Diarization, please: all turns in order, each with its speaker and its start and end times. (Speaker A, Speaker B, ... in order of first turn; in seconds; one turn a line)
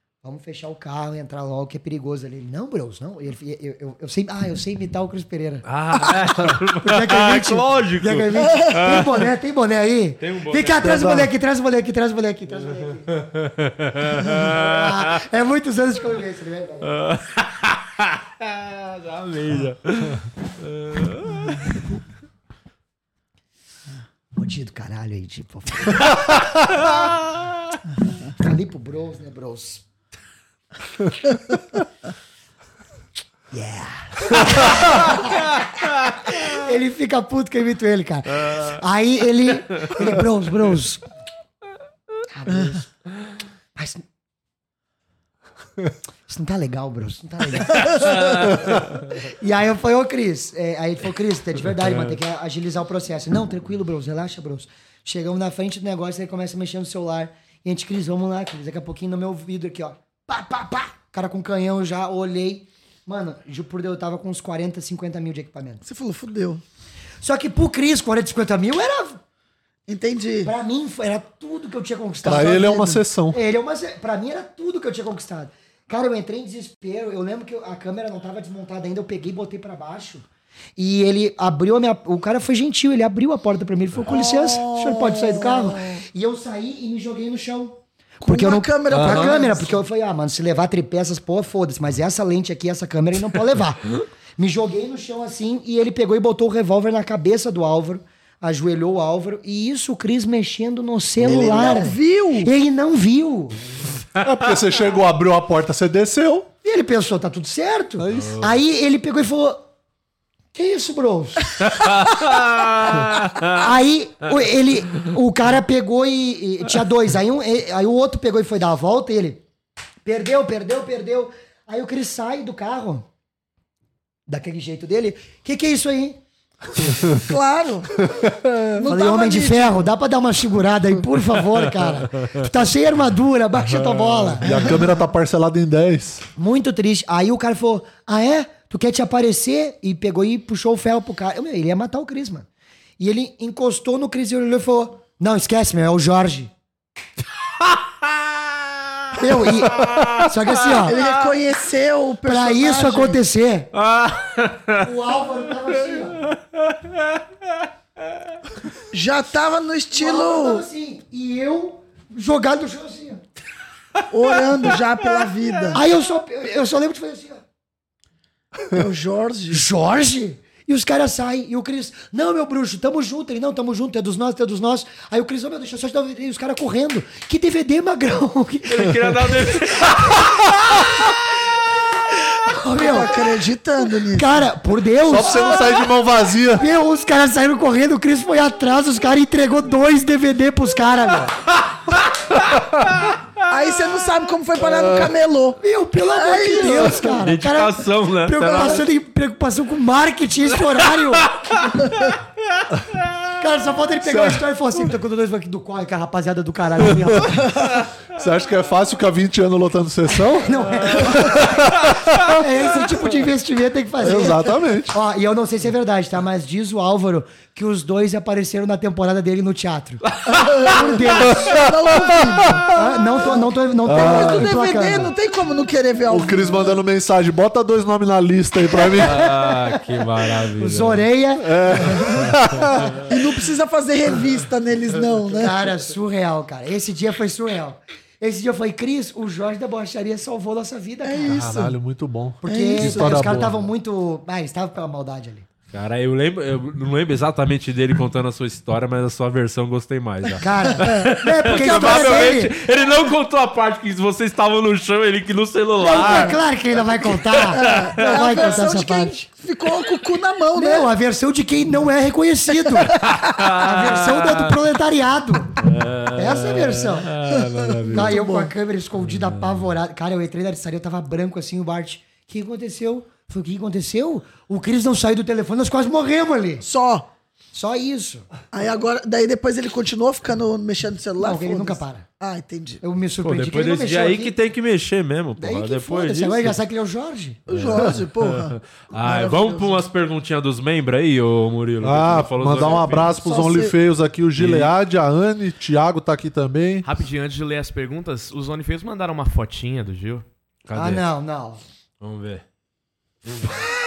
Speaker A: 0.2-5.7
Speaker B: 5.7-9.1
Speaker A: 6.5-13.1
Speaker B: 10.2-11.2
Speaker B: 13.1-14.9
Speaker A: 14.3-16.9
Speaker B: 16.9-21.7
Speaker A: 24.4-27.0
Speaker A: 28.4-29.8
Speaker A: 33.5-35.7
Speaker A: 36.3-41.0
Speaker A: 42.3-42.9
Speaker A: 43.8-44.0
Speaker A: 46.3-65.8
Speaker B: 48.0-48.5
Speaker C: 65.8-66.6
Speaker A: 67.2-69.2
Speaker C: 69.9-70.5
Speaker A: 70.5-80.2
Speaker D: 72.2-73.4
Speaker A: 80.8-103.6
Speaker C: 84.1-86.0
Speaker C: 88.2-89.8
Speaker D: 88.9-89.4
Speaker C: 101.2-102.5
Speaker D: 104.2-106.5
Speaker A: 106.6-109.6
Speaker D: 108.0-108.5
Speaker A: 110.5-111.6
Speaker B: 111.7-113.6
Speaker A: 113.5-119.4
Speaker A: 120.0-123.1
Speaker A: 124.3-126.2
Speaker C: 127.2-129.9
Speaker A: 128.8-134.9
Speaker B: 133.8-134.4
Speaker D: 134.4-136.3
Speaker A: 136.4-142.5
Speaker A: 143.0-146.5
Speaker A: 149.1-151.0
Speaker B: 149.7-150.2
Speaker C: 150.9-153.2
Speaker A: 152.3-153.7
Speaker B: 153.8-154.8
Speaker A: 154.8-156.3
Speaker C: 158.9-160.7
Speaker A: 159.9-163.2
Speaker C: 164.1-165.8
Speaker A: 165.7-167.4
Speaker C: 168.7-169.7
Speaker A: 169.5-180.2
Speaker B: 178.7-180.8
Speaker A: 182.4-183.3
Speaker C: 182.7-184.5
Speaker A: 184.1-185.8
Speaker D: 185.0-186.7
Speaker A: 186.6-191.4
Speaker B: 192.3-193.1
Speaker C: 193.5-197.2
Speaker D: 194.6-195.1
Speaker A: 195.6-201.8
Speaker D: 196.6-197.0
Speaker B: 197.2-198.8
Speaker C: 198.4-198.8
Speaker A: 203.4-207.5
Speaker D: 204.0-204.4
Speaker D: 206.9-207.2
Speaker D: 208.1-212.2
Speaker A: 210.2-211.7
Speaker A: 212.3-221.4
Speaker D: 214.0-215.0
Speaker C: 220.3-222.7
Speaker D: 221.3-222.7
Speaker A: 222.7-225.1
Speaker C: 223.2-226.8
Speaker D: 223.9-224.6
Speaker D: 226.1-229.3
Speaker A: 228.9-229.7
Speaker B: 229.0-231.1
Speaker A: 230.6-232.3
Speaker D: 231.4-233.0
Speaker C: 233.1-235.7
Speaker A: 235.3-241.5
Speaker C: 241.0-241.8
Speaker D: 241.3-243.7
Speaker A: 242.4-245.5
Speaker C: 242.4-243.4
Speaker B: 245.7-256.4
Speaker A: 250.4-252.6
Speaker A: 255.8-259.3
Speaker B: 257.5-258.4
Speaker C: 257.6-260.9
Speaker A: 260.6-265.6
Speaker B: 263.0-264.6
Speaker B: 265.6-268.1
Speaker A: 266.1-267.1
Speaker C: 267.8-268.5
Speaker A: 267.9-276.6
Speaker B: 269.1-269.7
Speaker C: 276.6-277.1
Speaker A: 277.5-278.3
Speaker C: 278.5-282.8
Speaker A: 281.2-282.1
Speaker A: 282.8-284.4
Speaker B: 283.2-286.6
Speaker A: 285.4-287.9
Speaker C: 287.5-289.8
Speaker B: 287.5-293.1
Speaker D: 291.8-296.9
Speaker C: 293.0-293.8
Speaker B: 294.4-294.7
Speaker E: 296.8-300.2
Speaker B: 300.7-301.0
Speaker A: 300.8-301.6
Speaker B: 302.0-302.4
Speaker B: 303.3-303.6